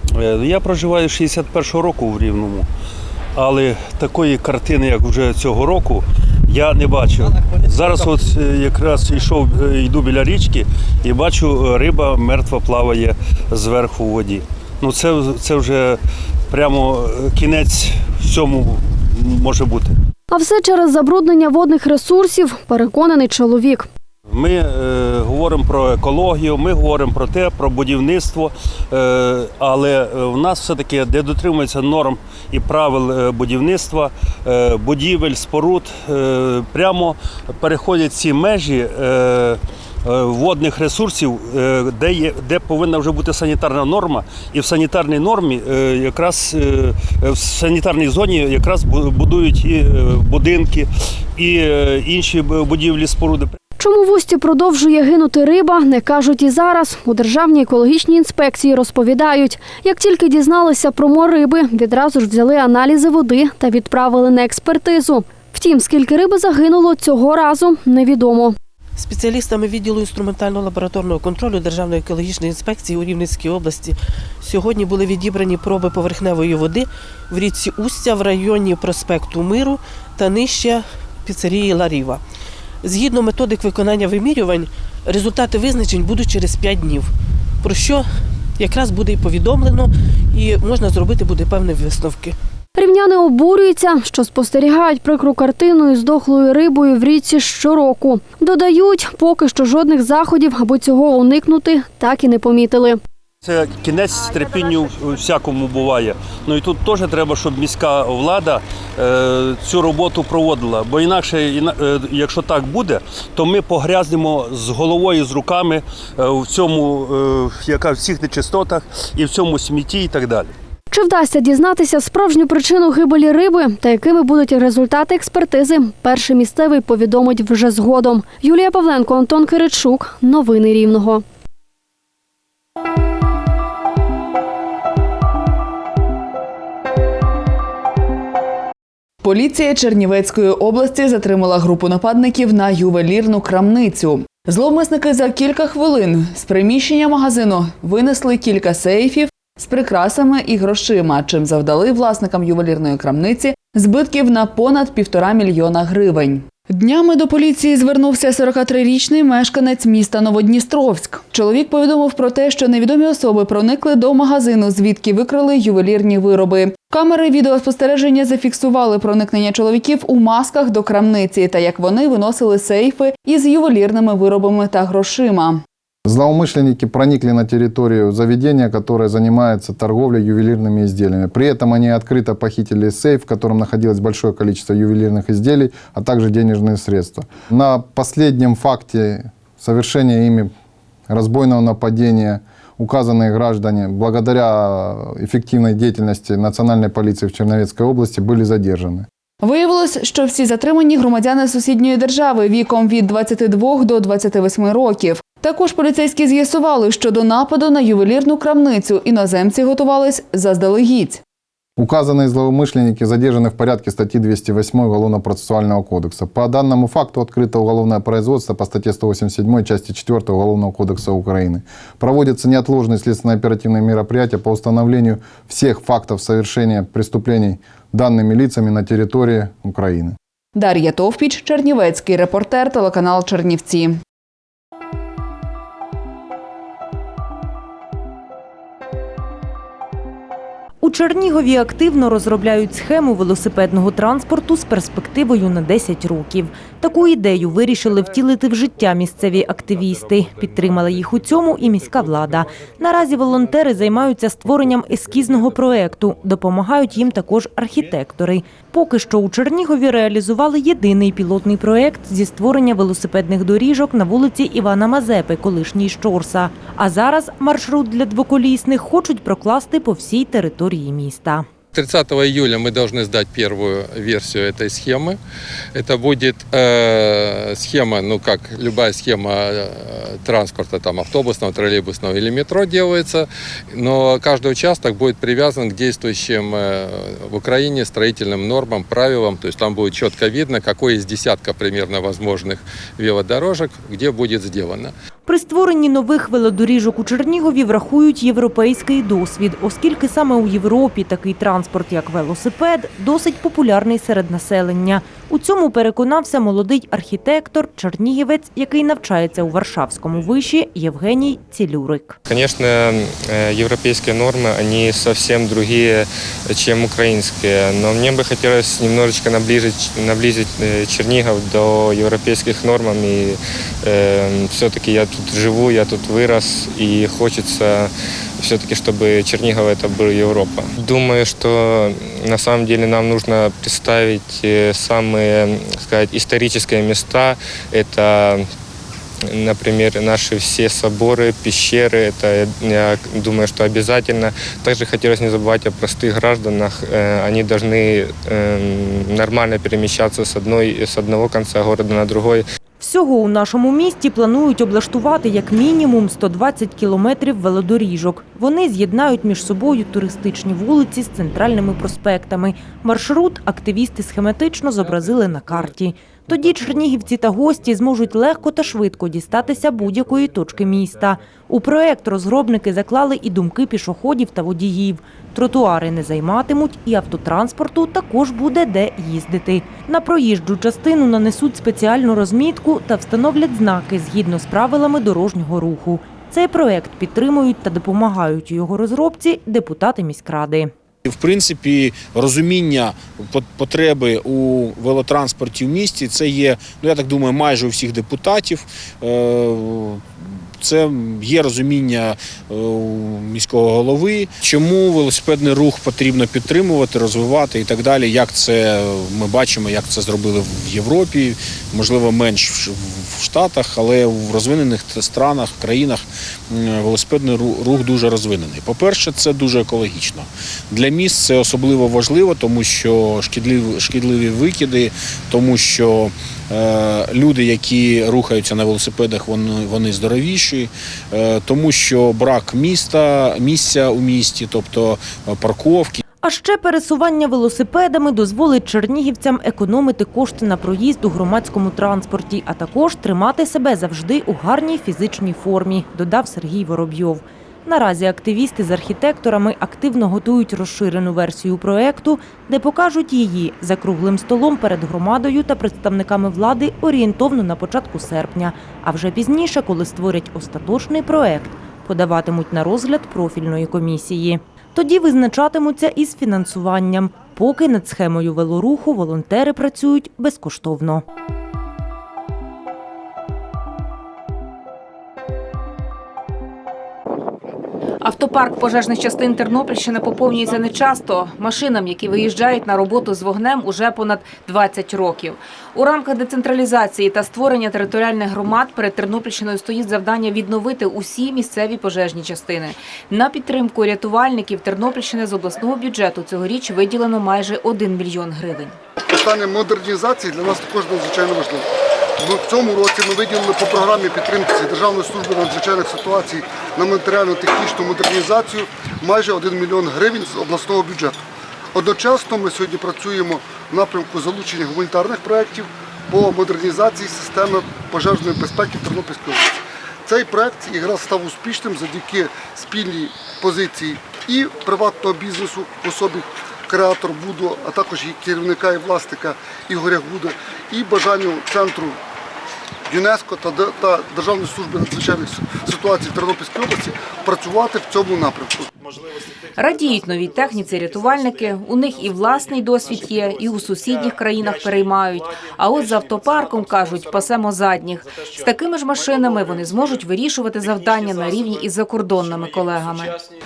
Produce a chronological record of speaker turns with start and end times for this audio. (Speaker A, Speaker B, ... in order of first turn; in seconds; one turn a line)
Speaker A: 0.2-2.7
Speaker A: 3.4-16.0
Speaker A: 16.5-19.9
Speaker B: 20.3-23.9
Speaker A: 24.3-53.5
Speaker B: 53.8-68.6
Speaker C: 69.0-82.2
Speaker C: 82.8-87.1
Speaker C: 87.6-88.1
Speaker C: 88.6-92.3
Speaker B: 92.8-103.0
Speaker A: 103.5-120.5
Speaker B: 120.9-131.2
Speaker D: 139.2-175.6
Speaker E: 176.1-190.5
Speaker E: 191.1-199.1
Speaker D: 199.4-211.2
Speaker E: 211.8-230.2
Speaker D: 230.6-234.0
Speaker F: 240.8-271.5
Speaker G: 271.7-275.2
Speaker G: 275.8-294.9
Speaker F: 295.3-312.2
Speaker H: 312.3-338.5
Speaker H: 339.3-352.4
Speaker F: 352.8-390.7
Speaker I: 391.1-436.0
Speaker F: 436.2-471.0
Speaker J: 478.0-498.8
Speaker K: 499.0-501.7
Speaker K: 502.2-511.2
Speaker K: 511.7-532.0
Speaker K: 532.9-538.7
Speaker J: 539.6-553.2